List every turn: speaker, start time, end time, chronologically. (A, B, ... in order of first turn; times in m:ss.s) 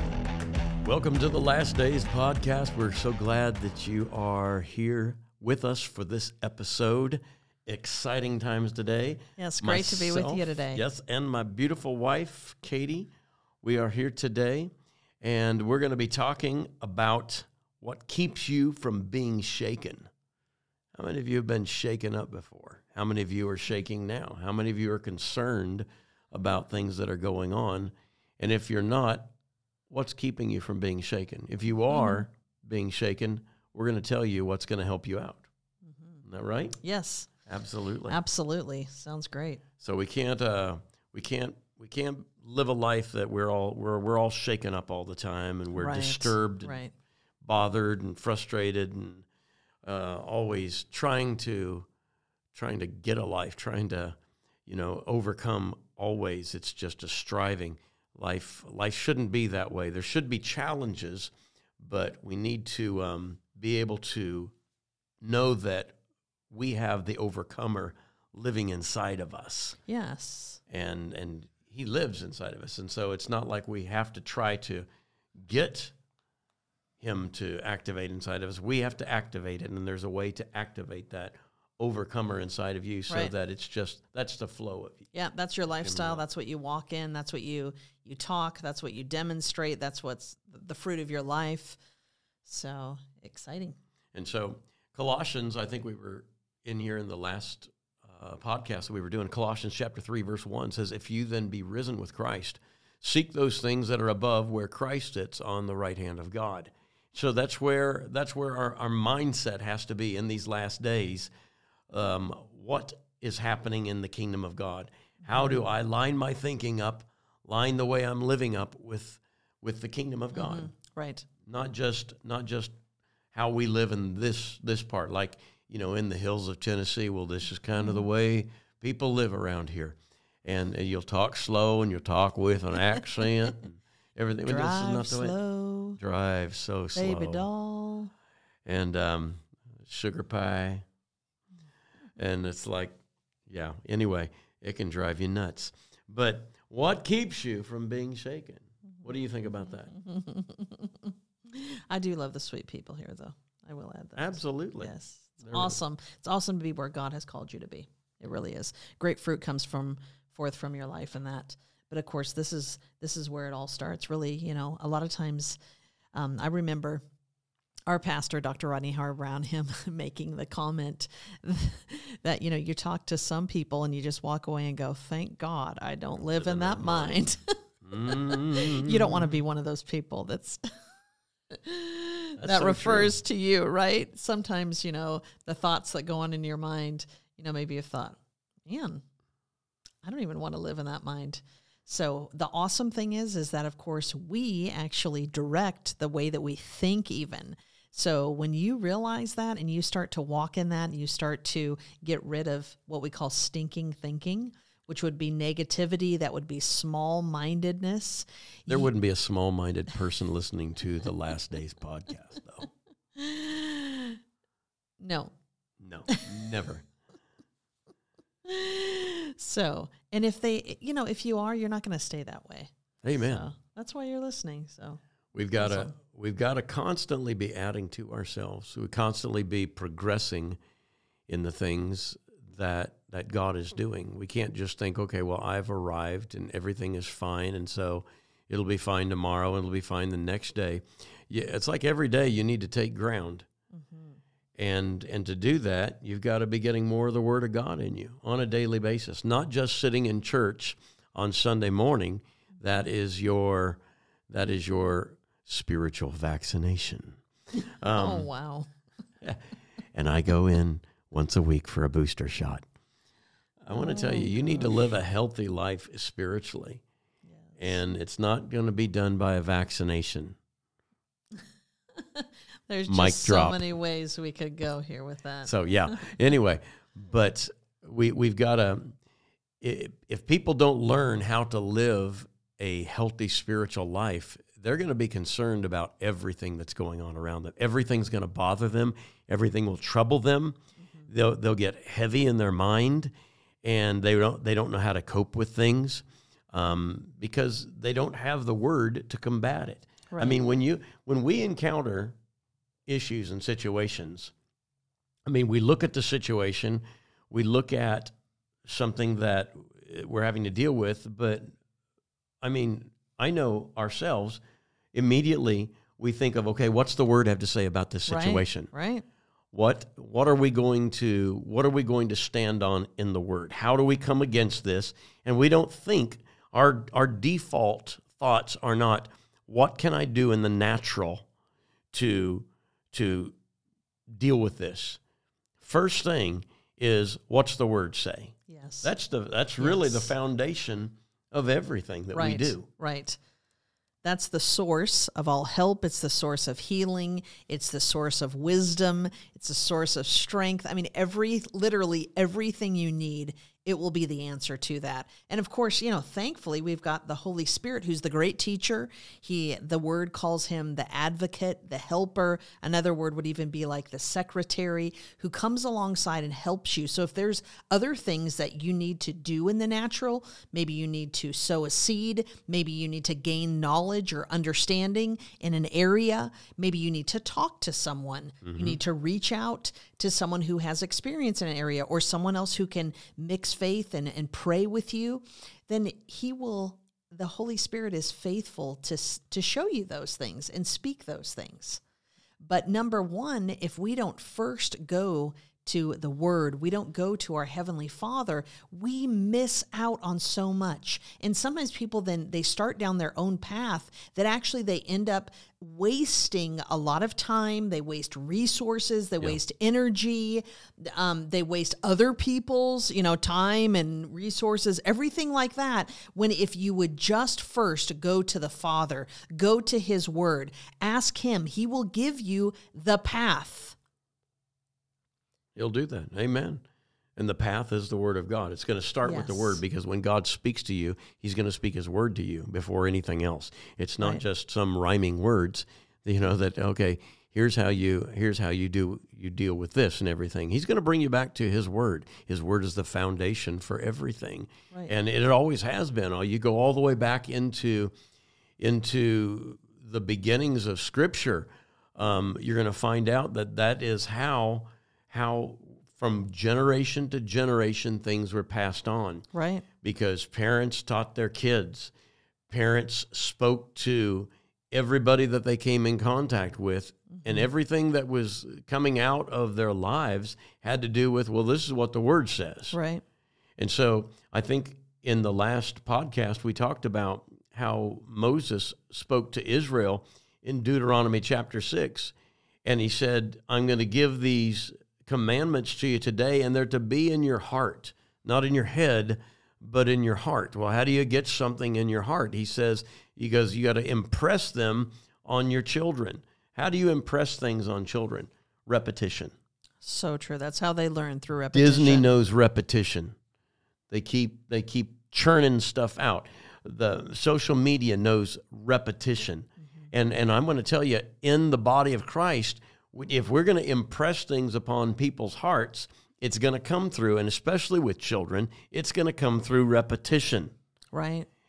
0:00.8-0:13.1 A
0:09.4-0:10.8 B
0:13.6-0:20.1 A
0:20.9-0:29.3 A
0:29.9-0:35.4 A
0:31.9-0:32.2 B
0:35.9-0:36.2 B
0:36.2-0:36.8 A
0:36.8-0:37.3 B
0:37.4-0:38.2 A
0:38.1-0:39.6 B
0:39.8-0:46.7 A
0:45.7-0:46.9 B
0:47.4-0:49.2 A
0:49.8-0:51.9 A
0:52.5-1:04.5 A
1:05.2-1:05.9 A
1:06.5-1:09.8 A
1:09.9-1:10.6 B
1:10.7-1:14.8 A
1:15.4-1:15.9 A
1:17.0-1:25.1 A
1:25.1-1:31.8 B
1:25.8-1:26.2 A
1:32.4-1:33.8 B
1:34.1-1:51.3 A
1:51.9-2:00.7 A
2:00.3-2:01.2 B
2:01.4-2:02.8 A
2:03.3-2:15.3 A
2:14.4-2:16.0 B
2:16.0-2:17.5 A
2:16.9-2:18.1 B
2:18.6-2:20.8 A
2:22.2-2:29.9 A
2:29.9-2:45.6 B
2:34.2-2:35.8 A
2:46.1-2:47.0 B
2:47.9-2:57.5 B
2:56.3-2:57.2 A
2:57.8-2:59.3 A
2:58.1-3:00.6 B
3:01.5-3:09.0 B
3:02.4-3:03.1 A
3:10.0-3:28.9 B
3:28.7-3:32.7 A
3:33.2-3:34.2 B
3:35.0-3:35.3 B
3:35.8-3:36.8 A
3:36.1-3:36.3 B
3:38.4-3:45.0 B
3:43.0-3:43.5 A
3:45.3-3:50.6 A
3:45.6-3:45.9 B
3:51.3-4:03.5 A
4:03.7-4:04.2 B
4:04.6-4:17.2 A
4:17.8-4:18.3 A
4:17.9-4:18.7 B
4:19.9-4:22.6 A
4:23.6-4:26.8 A
4:23.7-4:24.8 B
4:27.6-4:30.4 A
4:32.0-4:36.1 B
4:32.9-4:33.6 A
4:35.4-4:39.0 A
4:39.6-4:53.1 A
4:53.6-5:02.2 A
5:00.1-5:00.4 B
5:02.9-5:04.3 A
5:05.2-5:08.1 A
5:08.6-5:11.5 A
5:12.4-5:14.4 A
5:14.9-5:18.7 A
5:18.1-5:19.0 B
5:19.5-5:31.2 A
5:31.9-5:33.3 A
5:34.1-5:35.0 A
5:35.6-5:42.6 A
5:38.5-5:38.9 B
5:39.6-5:40.1 B
5:42.1-5:43.2 B
5:44.0-6:31.8 B
6:18.4-6:18.8 A
6:32.4-7:03.8 B
7:05.6-7:06.6 A
7:07.2-7:27.9 A
7:09.0-7:09.6 B
7:28.6-7:39.3 A
7:39.3-7:39.6 B
7:39.8-7:41.9 A
7:42.5-7:52.8 A
7:47.1-7:47.4 B
7:52.7-7:53.0 B
7:53.6-8:02.1 A
8:02.6-8:19.3 A
8:19.8-8:22.1 B
8:21.5-8:23.2 A
8:23.9-8:40.5 A
8:40.9-8:41.3 B